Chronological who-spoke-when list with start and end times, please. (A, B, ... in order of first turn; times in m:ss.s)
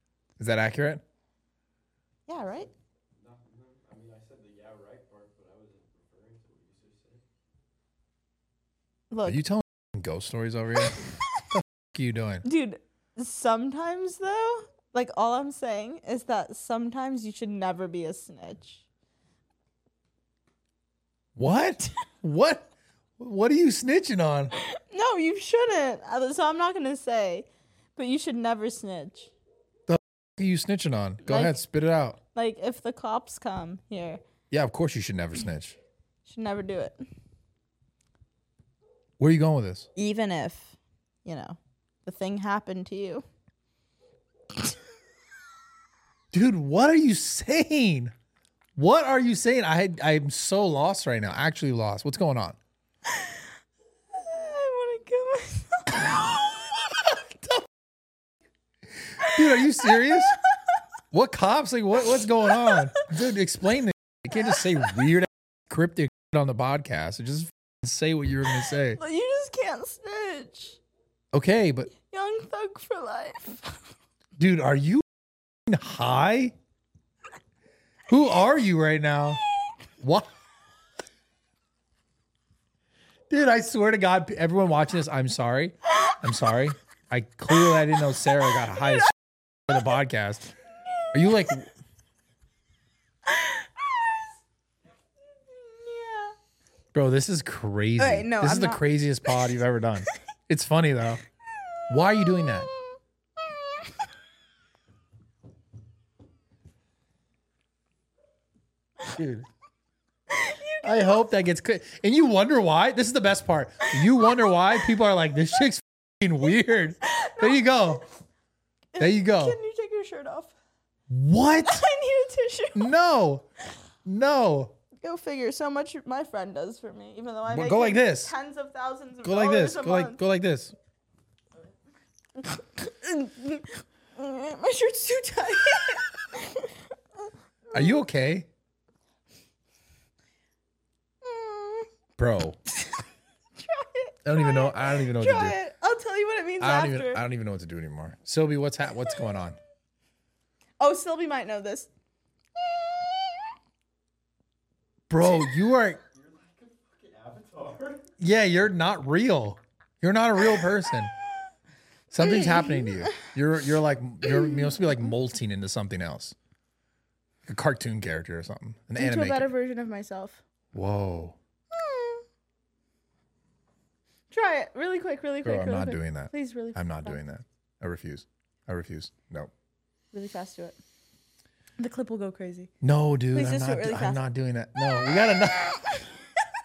0:00.4-0:01.0 A
0:02.3-0:02.7 B
0:02.4-0:07.2 C
0:09.1-0:09.4 B
0:09.3-0:12.4 A
0:12.4-0:18.8 B
0:21.4-0:22.7 A
0:23.2-0:24.5 A
0:24.5-0:29.3 B
0:29.9-0:32.2 A
0:31.2-0:31.6 B
0:32.3-0:34.2 B
0:34.5-0:35.8 A
0:36.3-0:37.0 B
0:39.2-0:39.9 A
0:40.0-0:43.2 B
0:46.3-0:48.1 A
0:48.8-0:52.6 A
0:53.1-0:53.4 B
0:54.1-0:56.7 B
0:57.1-0:57.6 A
0:59.2-1:00.4 A
0:59.2-1:00.2 B
1:01.1-1:09.0 A
1:02.5-1:03.0 B
1:08.7-1:10.8 B
1:11.3-1:11.9 A
1:12.0-1:13.8 B
1:14.4-1:15.1 A
1:15.7-1:16.5 A
1:18.1-1:19.4 A
1:20.0-1:20.3 A
1:23.3-1:29.1 A
1:28.7-1:29.0 B
1:29.7-1:30.5 A
1:31.1-1:31.7 A
1:33.3-1:34.3 B
1:35.5-1:36.3 B
1:36.9-1:41.2 A
1:38.0-1:38.8 B
1:41.9-1:42.7 A
1:42.4-1:42.8 B
1:43.4-1:44.0 B
1:49.1-1:49.5 A
1:50.3-1:51.2 B
1:50.8-1:58.0 A
1:53.9-1:54.2 B
1:57.0-1:58.0 B
1:59.0-2:00.5 B
1:59.0-1:59.6 A
2:01.1-2:01.9 A
2:01.6-2:02.9 B
2:02.8-2:03.4 A
2:04.0-2:04.7 A
2:05.0-2:10.2 B
2:07.5-2:08.3 A
2:09.2-2:10.8 A
2:12.4-2:16.8 B
2:17.7-2:18.0 B
2:17.7-2:18.5 A
2:21.2-2:21.9 B
2:22.2-2:22.6 A
2:23.6-2:27.2 B
2:24.2-2:25.6 A
2:26.6-2:29.6 A
2:30.8-2:31.9 B
2:32.6-2:33.5 B
2:35.1-2:36.0 A
2:36.1-2:38.1 C
2:38.2-2:41.1 A
2:42.1-2:46.4 A
2:42.2-2:43.3 B
2:44.2-2:45.1 B
2:47.5-2:49.5 A
2:49.0-2:50.4 B
2:50.7-2:51.4 A
2:51.7-2:52.2 B
2:54.3-2:57.2 B
2:55.4-2:59.5 A
3:00.1-3:00.8 B
3:01.8-3:02.7 B
3:02.8-3:05.8 A
3:03.3-3:04.2 B